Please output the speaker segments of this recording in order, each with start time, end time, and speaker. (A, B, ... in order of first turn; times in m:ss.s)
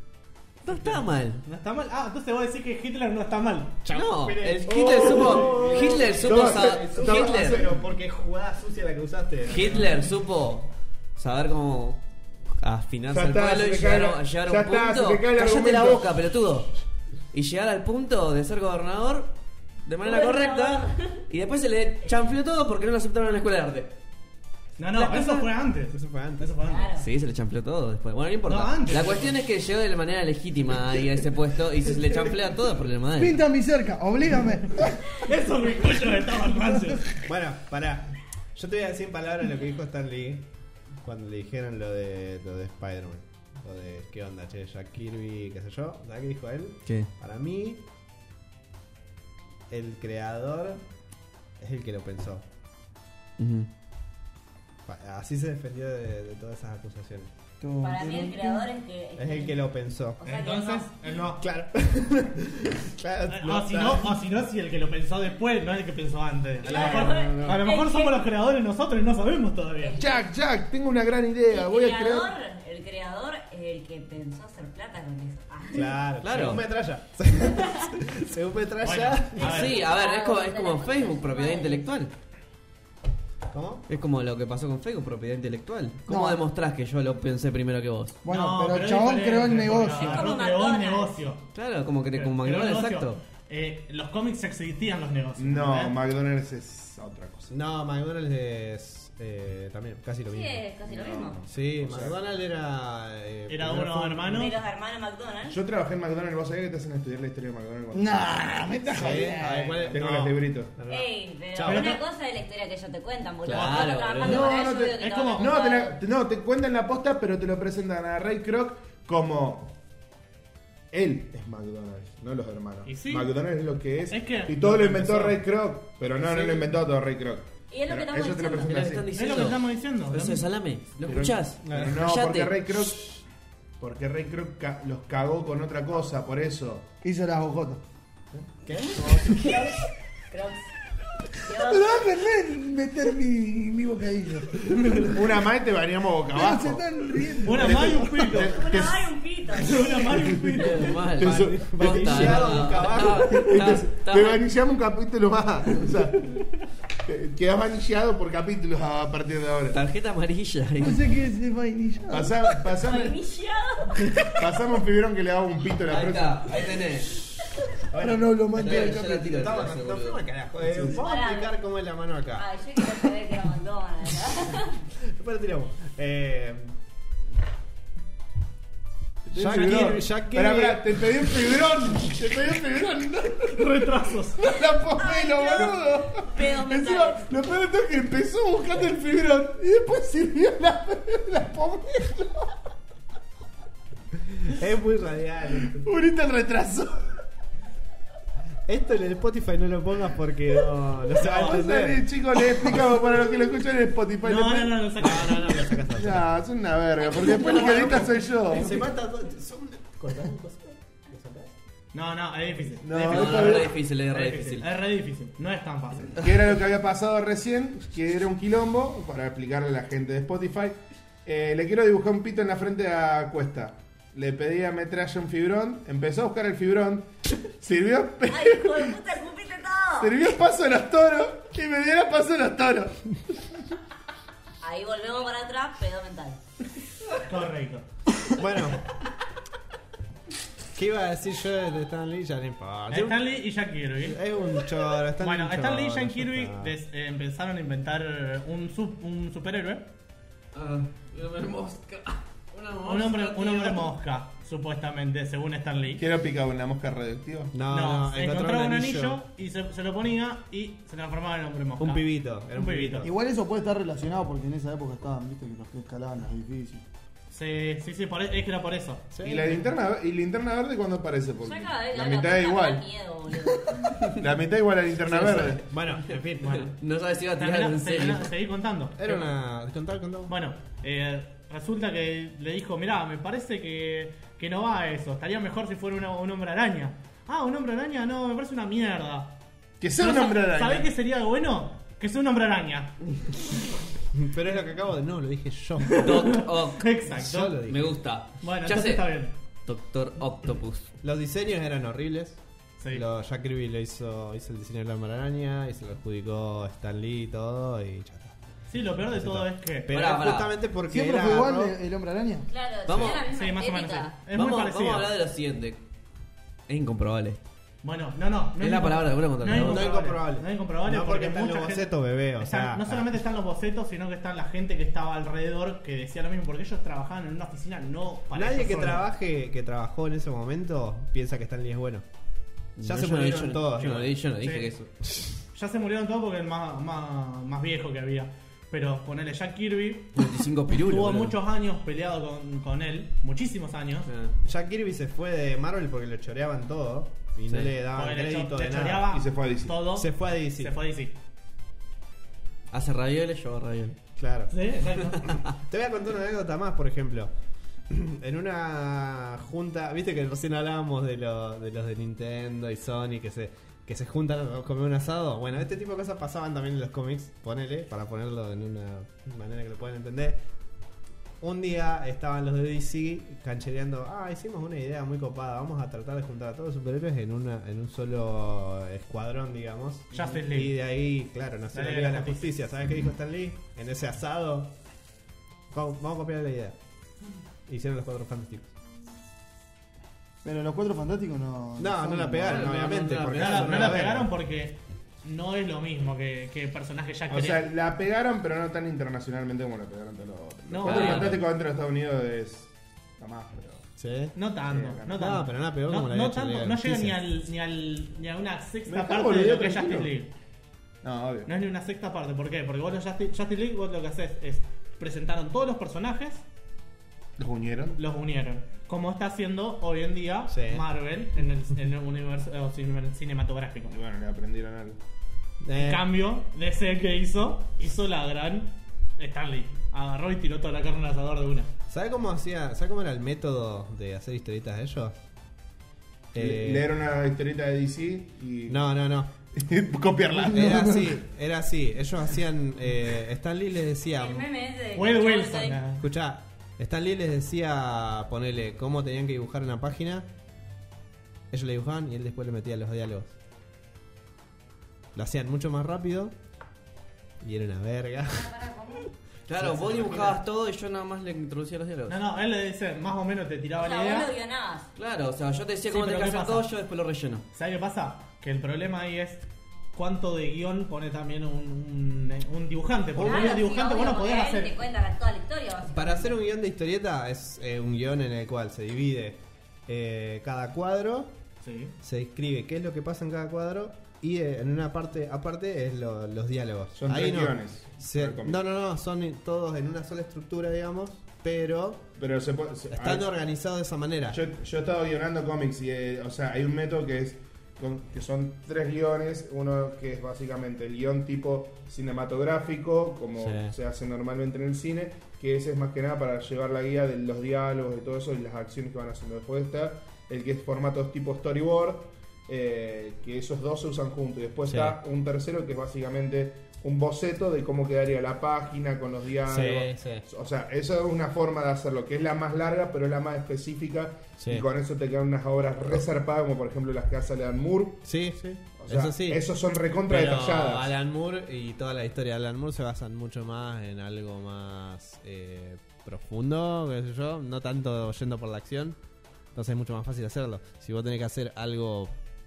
0:00.6-0:01.4 A
0:01.4-0:03.8 B
0:03.8-0:09.9 C
0:03.9-0:07.6 A
0:04.7-0:07.8 D
0:09.5-0:12.0 A
0:12.6-0:16.7 A
0:13.1-0:16.1 D
0:17.3-0:19.3 A
0:19.8-0:23.9 A
0:20.0-0:21.2 E
0:24.8-0:26.9 B
0:25.0-0:25.4 A
0:25.9-0:26.5 C
0:26.6-0:27.1 E
0:27.0-0:33.4 A
0:28.4-0:29.3 B
0:33.2-0:34.8 F
0:35.0-0:37.2 B
0:37.2-0:40.5 C
0:41.0-0:47.8 C
0:49.7-0:50.8 C
0:51.6-0:52.4 C
0:53.4-0:53.7 A
0:54.8-0:57.3 C
0:57.6-0:58.7 F
0:57.8-0:59.6 E
0:59.2-1:00.2 C
1:00.2-1:00.9 E
1:00.2-1:01.5 B
1:01.4-1:04.2 C
1:03.3-1:10.0 B
1:06.6-1:07.6 C
1:06.6-1:08.2 E
1:09.8-1:10.3 E
1:10.0-1:12.3 D
1:11.5-1:16.0 E
1:15.7-1:19.6 C
1:16.2-1:16.6 A
1:18.8-1:19.8 B
1:19.4-1:21.9 E
1:19.4-1:22.1 A
1:23.5-1:23.8 C
1:23.9-1:28.2 A
1:26.1-1:26.4 F
1:28.2-1:30.3 F
1:28.3-1:31.4 B
1:29.9-1:31.3 E
1:31.5-1:33.2 A
1:32.1-1:36.0 B
1:35.4-1:37.5 D
1:37.5-1:40.6 C
1:40.2-1:41.4 E
1:40.9-1:42.2 D
1:41.4-1:44.3 C
1:43.5-1:44.6 B
1:44.2-1:45.6 E
1:45.5-1:48.3 D
1:47.9-1:49.9 F
1:48.9-1:52.0 C
1:49.9-1:50.7 D
1:49.9-1:50.3 B
1:50.9-1:56.0 E
1:51.6-1:52.0 B
1:53.4-1:54.5 A
1:53.5-1:55.5 B
1:54.2-1:59.7 D
2:00.9-2:09.1 D
2:02.8-2:03.3 B
2:04.1-2:05.4 B
2:06.2-2:06.6 C
2:07.7-2:08.8 E
2:08.6-2:12.7 A
2:09.1-2:10.5 B
2:11.0-2:13.2 D
2:11.7-2:12.0 B
2:13.8-2:16.9 D
2:17.0-2:17.8 F
2:18.7-2:20.7 E
2:19.0-2:19.4 C
2:21.4-2:22.1 E
2:21.6-2:24.7 F
2:25.0-2:29.0 D
2:26.3-2:28.3 F
2:27.4-2:28.6 B
2:28.4-2:30.2 E
2:29.6-2:31.2 B
2:30.2-2:30.6 D
2:30.5-2:34.4 A
2:31.1-2:36.5 D
2:31.2-2:33.7 C
2:31.9-2:32.5 B
2:37.0-2:39.8 D
2:39.7-2:41.1 A
2:40.8-2:42.4 F
2:42.1-2:43.2 D
2:42.8-2:44.2 E
2:44.3-2:46.6 D
2:45.8-2:47.2 A
2:47.9-2:52.5 C
2:47.9-2:49.3 F
2:48.5-2:50.2 A
2:50.6-2:51.0 D
2:50.9-2:51.5 E
2:52.4-2:54.8 E
2:55.0-2:56.7 C
2:59.3-3:12.4 D
2:59.3-3:01.3 C
2:59.5-2:59.9 B
3:03.5-3:04.5 B
3:05.0-3:07.3 E
3:14.4-3:15.9 C
3:15.6-3:17.1 D
3:18.7-3:22.9 C
3:21.2-3:24.9 D
3:21.2-3:21.6 B
3:24.2-3:25.6 B
3:25.0-3:26.3 C
3:25.8-3:28.9 D
3:27.3-3:31.5 C
3:27.6-3:28.1 B
3:31.9-3:36.2 B
3:32.8-3:33.7 D
3:32.9-3:34.7 A
3:36.2-3:49.0 D
3:48.3-3:50.1 E
3:50.0-3:53.2 D
3:54.6-3:56.4 E
3:57.2-3:57.8 B
3:58.3-3:58.8 C
4:00.7-4:03.4 C
4:02.9-4:04.2 B
4:04.0-4:06.7 C
4:05.2-4:09.9 B
4:10.5-4:13.9 A
4:12.8-4:16.0 B
4:16.0-4:17.6 D
4:17.5-4:19.2 C
4:17.7-4:23.1 B
4:21.8-4:23.1 C
4:23.0-4:26.8 F
4:27.3-4:29.1 B
4:29.1-4:29.7 C
4:29.2-4:32.8 D
4:31.4-4:34.0 E
4:34.0-4:35.6 D
4:35.0-4:38.3 A
4:35.6-4:36.6 C
4:37.4-4:39.3 B
4:39.0-4:40.3 C
4:40.3-4:49.4 B
4:49.8-4:50.9 D
4:50.0-4:52.9 B
4:54.1-4:56.1 C
4:55.9-4:57.6 B
4:56.0-4:56.9 A
4:57.1-4:58.0 C
4:57.6-4:59.1 A
4:58.4-4:59.3 B
4:59.6-5:00.9 A
5:01.0-5:02.4 C
5:02.9-5:08.4 C
5:08.7-5:10.0 B
5:09.1-5:11.8 C
5:09.9-5:10.5 A
5:10.9-5:12.5 F
5:12.5-5:14.2 E
5:12.9-5:13.3 A
5:13.0-5:15.1 B
5:14.3-5:15.8 A
5:16.7-5:17.4 A
5:17.8-5:29.0 B
5:18.6-5:19.9 A
5:19.5-5:23.2 C
5:28.3-5:32.0 C
5:32.8-5:34.9 A
5:32.8-5:34.1 C
5:34.4-5:34.7 B
5:35.5-5:40.2 B
5:40.1-5:41.4 A
5:40.8-5:44.1 B
5:44.1-5:44.4 A
5:44.4-5:49.2 C
5:47.5-5:47.7 A
5:47.9-5:51.1 B
5:49.1-5:49.8 D
5:49.9-5:50.8 C
5:52.7-5:54.0 A
5:54.2-5:54.5 C
5:54.5-5:55.3 B
5:55.3-5:57.3 C
5:57.9-6:10.4 C
6:11.4-6:24.7 C
6:20.1-6:20.7 B
6:21.7-6:22.5 B
6:25.7-6:26.8 C
6:27.7-6:28.7 C
6:30.4-6:32.8 F
6:31.8-6:34.3 C
6:32.4-6:34.0 A
6:33.3-6:37.6 B
6:37.3-6:43.8 D
6:40.7-6:41.4 B
6:40.8-6:41.4 A
6:41.0-6:41.3 C
6:44.0-6:44.3 C
6:44.3-6:50.3 B
6:44.7-6:45.2 D
6:45.1-6:47.2 C
6:48.9-6:50.1 D
6:51.0-6:51.5 D
6:51.4-6:56.4 B
6:57.4-6:58.0 D
6:58.0-7:03.9 B
7:00.5-7:00.8 C
7:03.9-7:05.0 D
7:05.6-7:06.1 C
7:05.7-7:11.7 B
7:11.9-7:15.1 C
7:16.3-7:16.9 C
7:16.4-7:18.8 D
7:18.7-7:19.3 C
7:19.5-7:20.9 D
7:20.5-7:24.4 C
7:20.7-7:21.0 F
7:24.2-7:25.8 E
7:24.9-7:26.0 B
7:26.0-7:30.3 C
7:31.5-7:33.3 C
7:35.1-7:36.3 C
7:37.4-7:38.5 C
7:38.3-7:39.1 E
7:39.5-7:42.2 A
7:39.6-7:40.4 C
7:42.1-7:44.3 B
7:43.8-7:44.9 E
7:45.0-7:47.4 A
7:45.9-7:46.7 B
7:47.5-7:54.7 B
7:53.2-7:53.6 C
7:53.2-7:56.4 E
7:55.9-8:01.3 C
8:01.6-8:01.9 B
8:02.0-8:12.0 C
8:07.0-8:08.6 D
8:12.2-8:13.3 D
8:12.9-8:14.4 C
8:14.3-8:48.0 D
8:23.4-8:23.7 C
8:34.6-8:35.0 C
8:39.4-8:40.2 C
8:44.4-8:44.7 C
8:48.0-8:49.4 C
8:48.8-8:50.9 D
8:50.0-8:59.0 C
8:59.5-9:02.1 C